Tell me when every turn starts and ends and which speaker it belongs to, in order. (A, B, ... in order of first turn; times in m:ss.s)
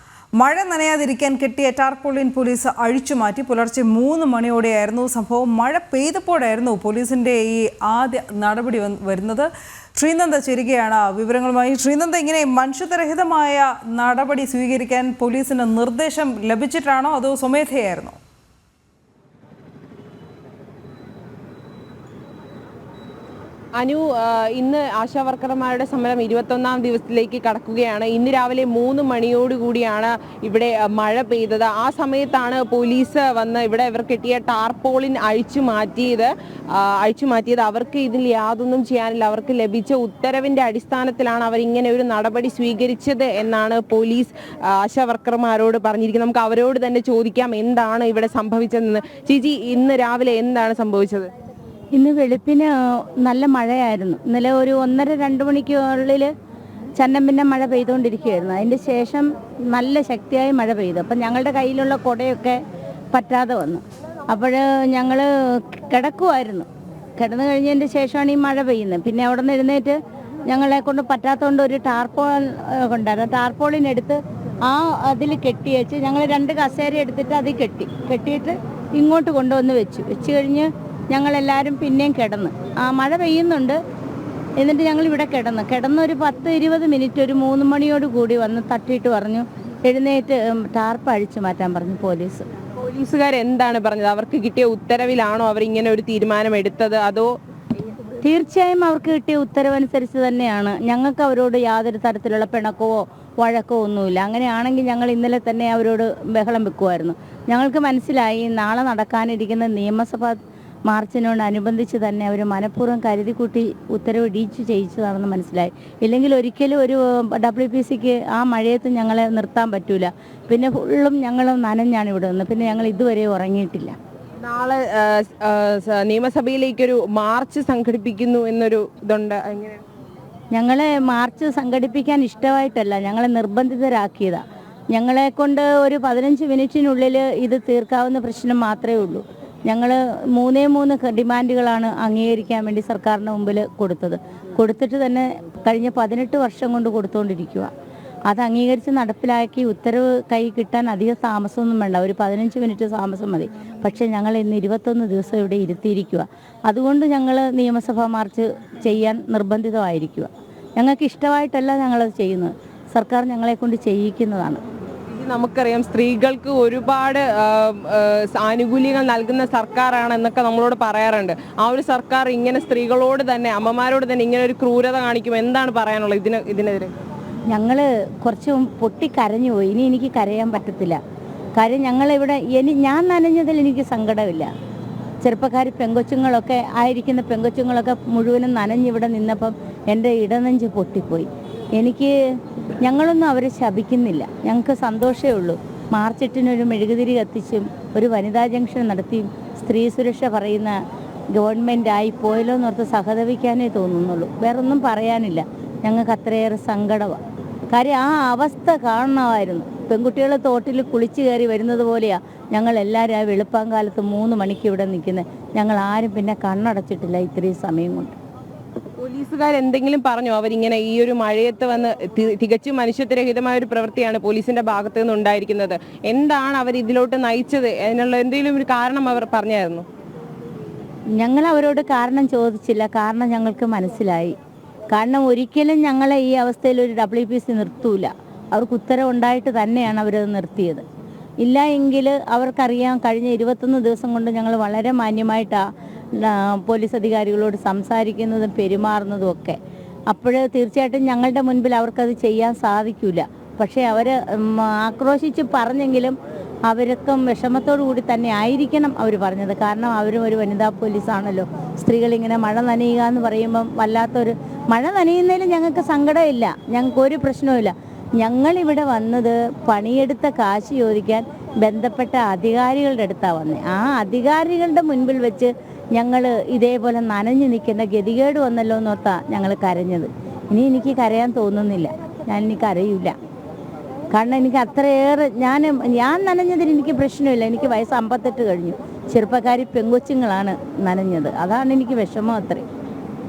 0:00.4-0:18.2 A
0:23.8-0:51.3 B
0:52.0-0:56.3 C
0:57.0-1:02.6 C
1:03.1-1:23.8 C
1:24.6-1:32.4 C
1:32.8-1:37.3 B
1:38.2-2:04.0 C
2:04.4-2:09.8 B
2:10.5-2:14.4 C
2:14.9-2:27.7 C
2:28.3-2:44.6 C
2:45.1-2:56.9 B
2:57.5-3:01.0 C
3:01.6-3:04.5 C
3:05.2-3:12.1 C
3:12.8-3:20.8 C
3:21.3-3:27.2 C
3:27.7-3:38.1 C
3:39.0-3:49.8 B
3:51.2-3:54.4 C
3:54.9-4:00.8 C
4:01.4-4:05.6 C
4:06.2-4:09.6 C
4:10.1-4:16.2 C
4:16.7-4:43.2 C
4:44.1-4:52.6 C